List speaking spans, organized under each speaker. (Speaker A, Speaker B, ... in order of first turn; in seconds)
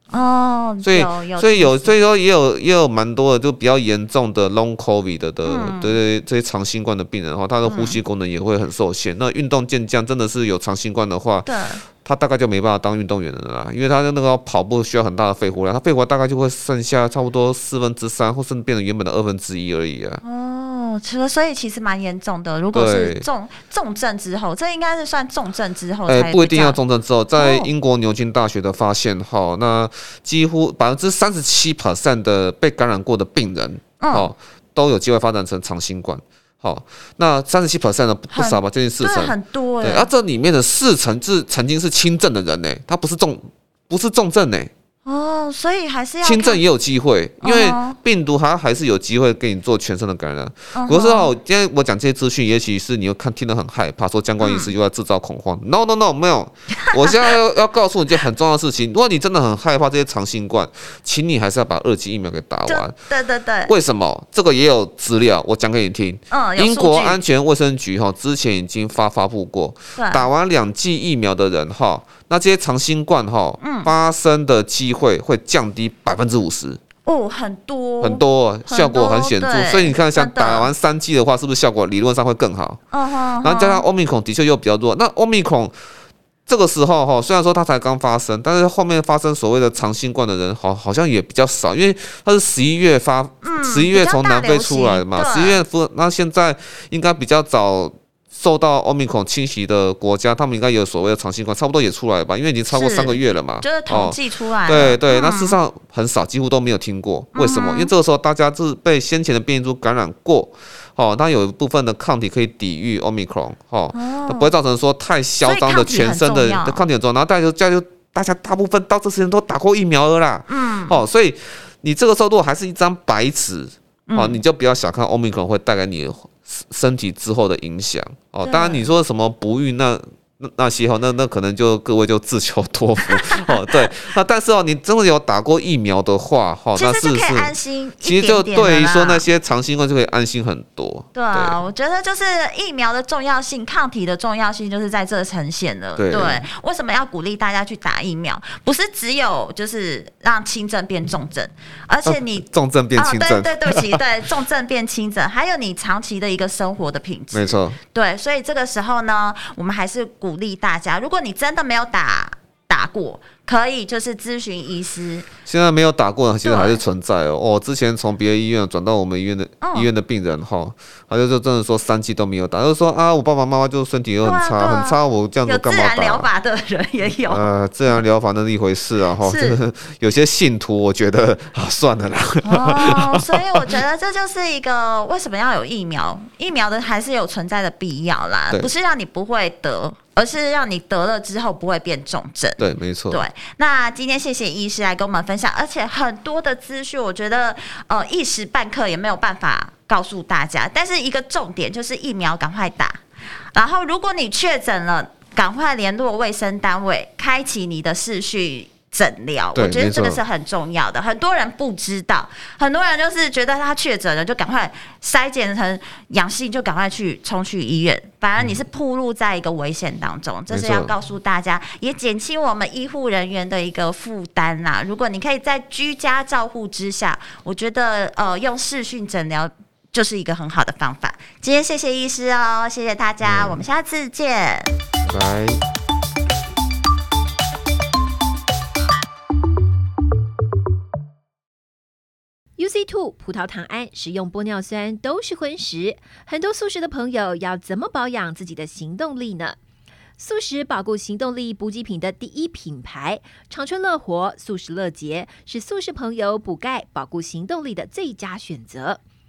Speaker A: 0.1-1.9, 5.5-6.0, 7.6-8.0, 11.5-11.8, 20.2-26.8, 27.4-27.7, 34.0-34.3, 38.3-40.1, 45.0-46.6, 47.4-48.0, 50.7-51.3, 54.4-54.7, 56.8-57.3, 62.7-63.7, 66.3-67.2, 70.0-70.3, 73.6-73.9, 77.0-80.7, 82.9-83.8, 93.4-95.6, 102.7-105.5, 107.3-107.9, 113.9-114.5, 115.4-116.8, 120.5-121.0, 124.1-124.4, 128.4-128.8, 133.1-133.9, 136.8-139.3, 141.1-152.4, 152.9-165.3, 166.4-166.8, 169.6-169.9, 174.2-177.5, 179.2-179.6, 182.4-203.0, 203.5-234.7
Speaker B: 0.8-20.2, 22.7-23.2, 26.1-44.7, 46.2-63.0, 63.7-76.8, 78.0-82.8, 83.4-85.8, 86.5-141.6, 146.0-146.4, 152.1-154.0, 157.3-157.8, 165.5-176.3, 177.3-183.6, 192.6-193.2, 209.6-210.2, 218.4-218.7, 220.5-220.9, 233.2-233.6, 235.0-235.6
Speaker C: 242.6-249.6, 250.2-259.0